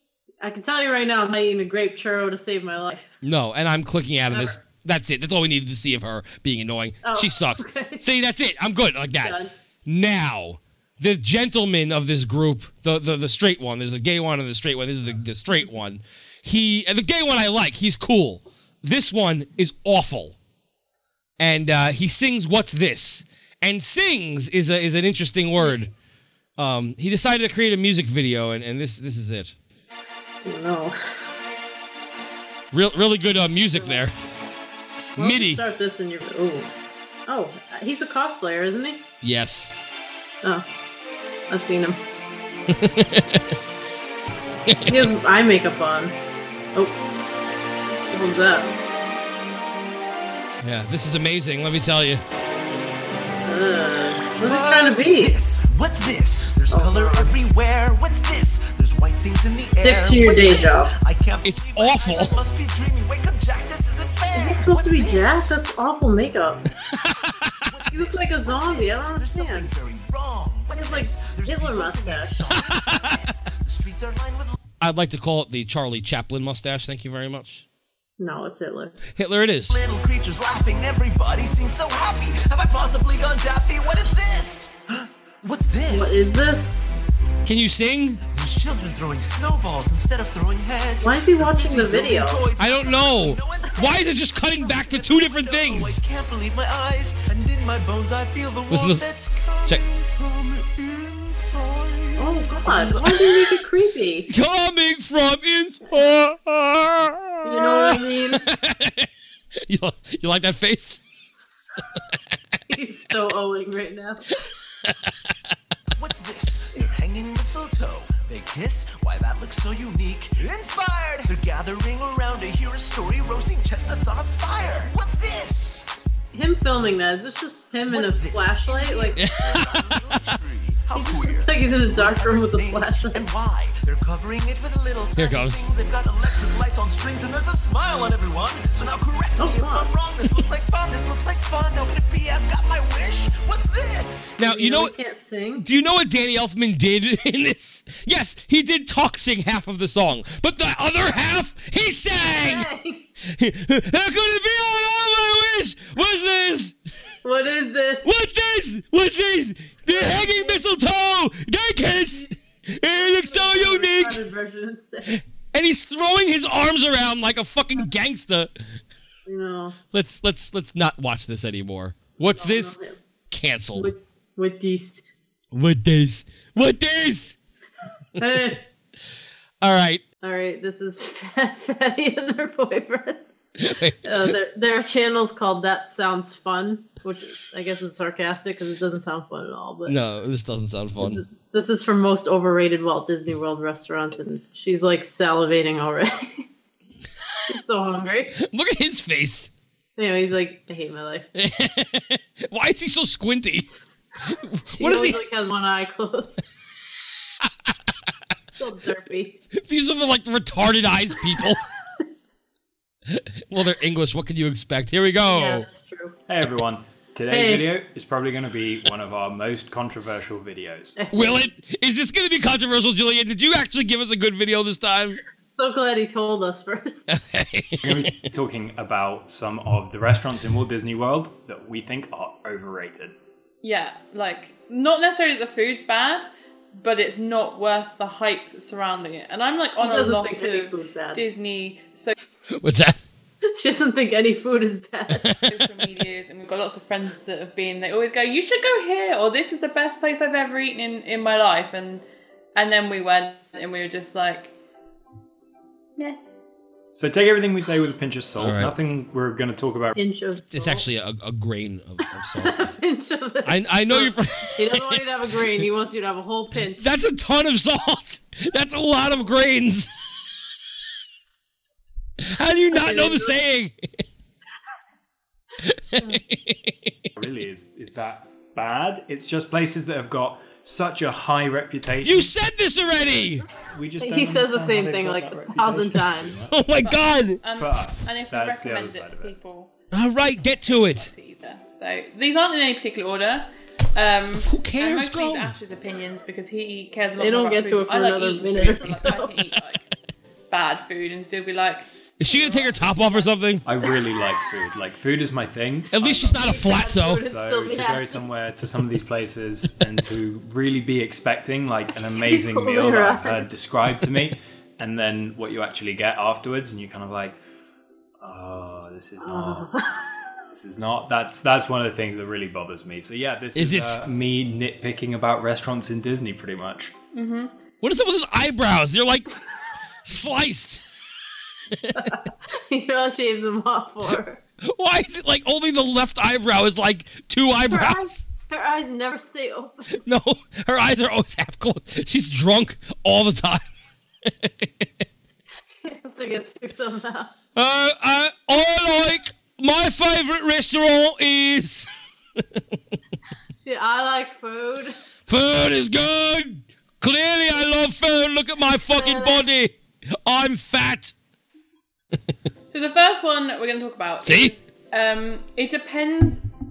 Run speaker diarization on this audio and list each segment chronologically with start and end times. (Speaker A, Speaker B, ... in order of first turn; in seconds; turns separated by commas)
Speaker A: 0.4-3.1, Speaker B: 3.2-20.4, Speaker A: 4.3-4.6, Speaker A: 7.0-8.0, Speaker A: 9.2-9.5, Speaker B: 21.4-25.9, Speaker B: 26.6-29.5, Speaker A: 30.4-31.0, Speaker B: 32.7-34.1, Speaker A: 33.8-34.0, Speaker B: 35.1-35.6, Speaker A: 35.1-36.7, Speaker A: 37.3-39.0, Speaker B: 39.2-39.7, Speaker A: 41.5-42.0, Speaker B: 42.7-43.5, Speaker B: 44.7-45.1, Speaker A: 44.9-46.1, Speaker A: 48.1-48.7, Speaker B: 50.6-52.2, Speaker A: 53.4-55.3, Speaker C: 54.4-65.6, Speaker A: 56.7-57.3, Speaker A: 59.8-60.9, Speaker B: 61.4-62.4, Speaker A: 64.3-66.6, Speaker B: 67.0-67.5, Speaker C: 67.7-74.6, Speaker A: 67.9-69.7, Speaker A: 70.7-72.5, Speaker B: 72.6-73.2, Speaker B: 74.8-77.6, Speaker A: 78.2-79.0, Speaker B: 79.2-79.8, Speaker C: 79.7-86.3, Speaker A: 85.9-86.9, Speaker B: 87.4-88.2, Speaker C: 88.2-103.6, Speaker A: 91.0-92.4, Speaker B: 92.6-96.0, Speaker B: 98.7-99.0, Speaker A: 102.2-104.3, Speaker B: 104.3-111.0, Speaker A: 107.4-108.5, Speaker A: 112.7-114.3, Speaker C: 116.0-125.9, Speaker A: 126.3-129.2, Speaker C: 127.8-144.4, Speaker B: 129.2-130.3, Speaker A: 130.9-133.2, Speaker B: 135.2-135.7, Speaker A: 139.4-139.9, Speaker B: 144.4-144.9, Speaker A: 144.4-145.6, Speaker B: 145.6-152.7, Speaker A: 152.3-153.1, Speaker B: 153.2-156.7, Speaker A: 157.2-158.1, Speaker B: 158.0-164.2, Speaker A: 159.8-160.6, Speaker A: 162.9-165.2, Speaker B: 165.1-168.5, Speaker A: 169.2-169.8, Speaker B: 169.9-172.7, Speaker A: 172.2-173.0, Speaker B: 173.3-173.9, Speaker A: 173.7-175.1, Speaker B: 175.5-177.3, Speaker A: 178.2-178.6, Speaker B: 179.6-180.0, Speaker A: 180.2-183.2, Speaker B: 183.6-184.3, Speaker A: 184.0-190.0, Speaker B: 189.8-191.2, Speaker A: 191.0-196.4, Speaker A: 197.5-198.4, Speaker B: 198.4-199.5, Speaker A: 200.0-201.3, Speaker B: 201.3-203.7, Speaker B: 204.3-205.2, Speaker A: 204.7-206.4, Speaker A: 208.6-209.4, Speaker B: 209.5-211.6, Speaker B: 213.1-215.7, Speaker A: 215.2-216.1, Speaker D: 216.3-221.0, Speaker A: 217.3-217.7, Speaker A: 221.0-221.5, Speaker B: 221.1-225.2, Speaker A: 225.6-227.1, Speaker B: 227.1-228.1, Speaker D: 227.8-233.1, Speaker E: 233.6-242.1, Speaker A: 239.8-241.2, Speaker B: 242.5-243.0, Speaker A: 243.5-245.4, Speaker B: 245.1-245.4, Speaker E: 245.5-252.0, Speaker E: 252.5-254.5, Speaker D: 256.9-260.0, Speaker B: 258.4-258.7, Speaker A: 259.9-260.9, Speaker B: 260.5-262.8, Speaker A: 262.4-266.9, Speaker B: 263.4-265.0, Speaker B: 266.8-269.9, Speaker B: 272.2-273.8, Speaker A: 272.7-273.3, Speaker B: 275.6-276.7, Speaker D: 277.1-282.3, Speaker B: 282.0-283.4, Speaker D: 283.0-286.7, Speaker A: 284.0-286.4, Speaker B: 286.5-287.4, Speaker E: 286.8-289.7, Speaker D: 287.4-289.4, Speaker B: 289.9-291.1, Speaker E: 290.4-299.8, Speaker B: 294.3-295.5, Speaker A: 297.2-299.3, Speaker E: 300.5-303.4, Speaker B: 302.2-303.6, Speaker D: 303.6-317.4, Speaker B: 305.9-307.2, Speaker A: 306.4-308.2, Speaker A: 312.2-313.5, Speaker D: 318.2-319.7, Speaker A: 319.2-320.1, Speaker D: 320.5-326.9, Speaker B: 323.5-324.0, Speaker E: 327.1-327.5, Speaker B: 327.8-329.3, Speaker B: 330.0-330.8, Speaker A: 331.9-334.4, Speaker B: 334.6-338.2, Speaker A: 337.7-340.0, Speaker B: 340.0-343.6, Speaker B: 344.2-344.9, Speaker A: 345.8-347.3, Speaker B: 347.6-352.6, Speaker A: 353.6-354.9, Speaker B: 355.3-361.1, Speaker A: 358.9-359.4, Speaker E: 362.7-366.4, Speaker B: 364.2-364.5